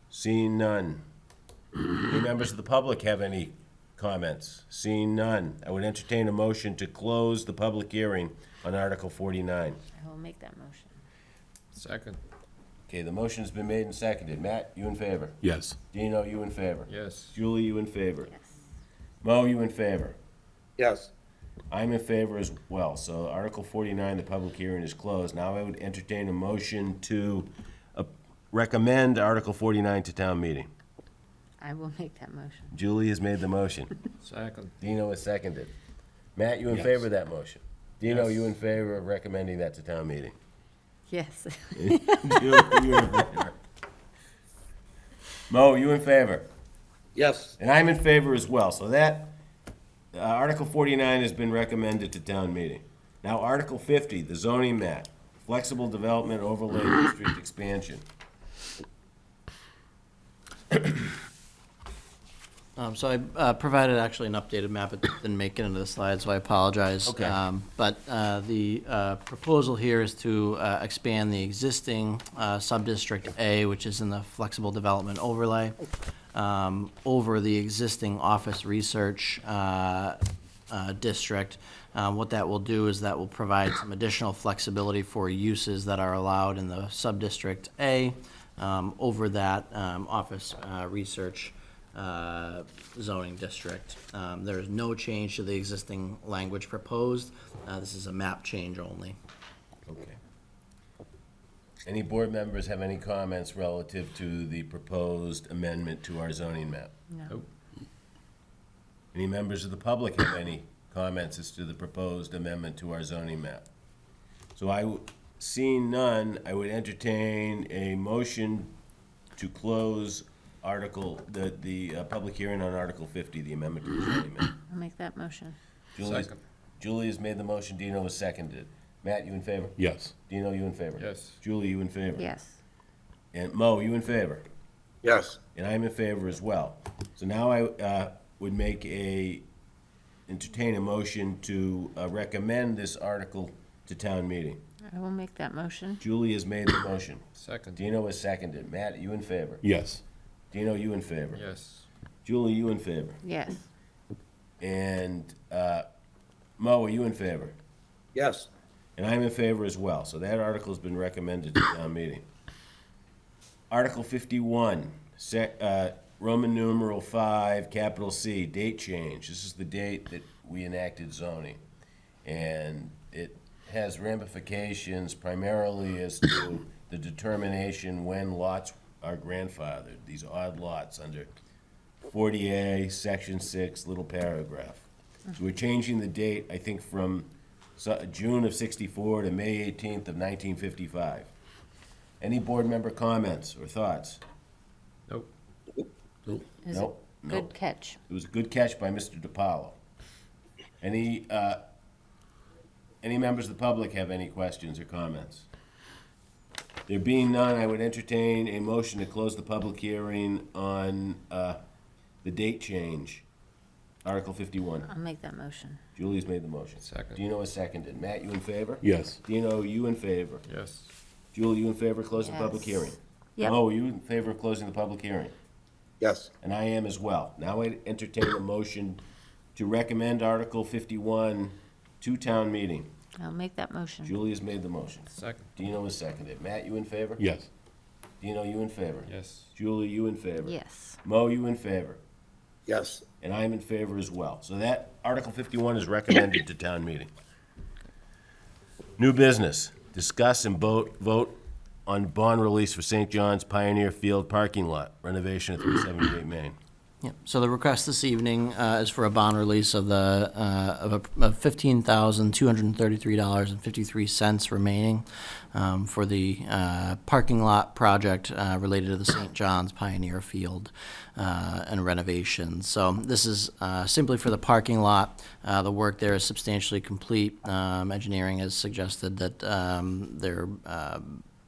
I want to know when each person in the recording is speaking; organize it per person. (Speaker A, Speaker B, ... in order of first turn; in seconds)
Speaker A: 0.1-1.0, 2.0-9.8, 12.9-18.3, 19.2-20.1, 21.7-30.7, 32.7-34.0, 34.8-35.7, 36.4-40.3, 41.7-43.5, 45.5-46.5, 47.6-49.4, 50.1-58.0, 67.0-67.4, 99.9-100.2, 101.8-106.9, 109.1-113.7, 114.5-118.7, 119.3-124.5, 126.0-132.3, 133.3-134.4, 135.5-139.4, 140.3-144.6, 146.0-149.6, 150.5-151.4, 152.2-153.2, 154.6-155.8, 156.6-157.6, 158.9-162.2, 163.7-171.6, 172.2-181.3, 182.1-184.8, 185.3-191.3, 192.2-194.2, 196.7-197.5, 198.1-199.8, 200.8-201.6, 203.0-205.4, 206.9-211.6, 212.2-213.2, 214.0-214.9, 215.9-220.4, 221.3-225.3, 226.4-229.0, 229.5-232.9, 234.0-237.2, 238.2-242.0, 243.2-247.1, 249.0-256.5
Speaker B: 9.9-10.9, 31.6-32.7, 41.1-42.2, 107.1-107.4, 124.7-125.6, 132.2-132.6, 144.9-146.0, 153.2-153.6, 196.6-198.0, 214.8-215.8, 222.2-222.8, 233.2-234.2, 240.4-241.0
Speaker C: 11.7-12.2, 16.9-17.4, 34.2-34.7, 38.1-38.5, 126.0-126.4, 130.9-131.4, 147.4-147.8, 151.3-151.8, 216.8-217.2, 220.4-220.9, 235.1-235.5, 239.0-239.5
Speaker D: 15.4-15.8, 129.8-130.1, 149.6-150.0, 218.8-219.2, 237.2-237.5
Speaker E: 20.8-21.1, 47.1-47.5, 135.0-135.4, 158.1-158.5, 226.0-226.3, 242.7-243.0
Speaker F: 62.8-75.8, 76.3-80.2, 80.7-99.2, 257.0-281.2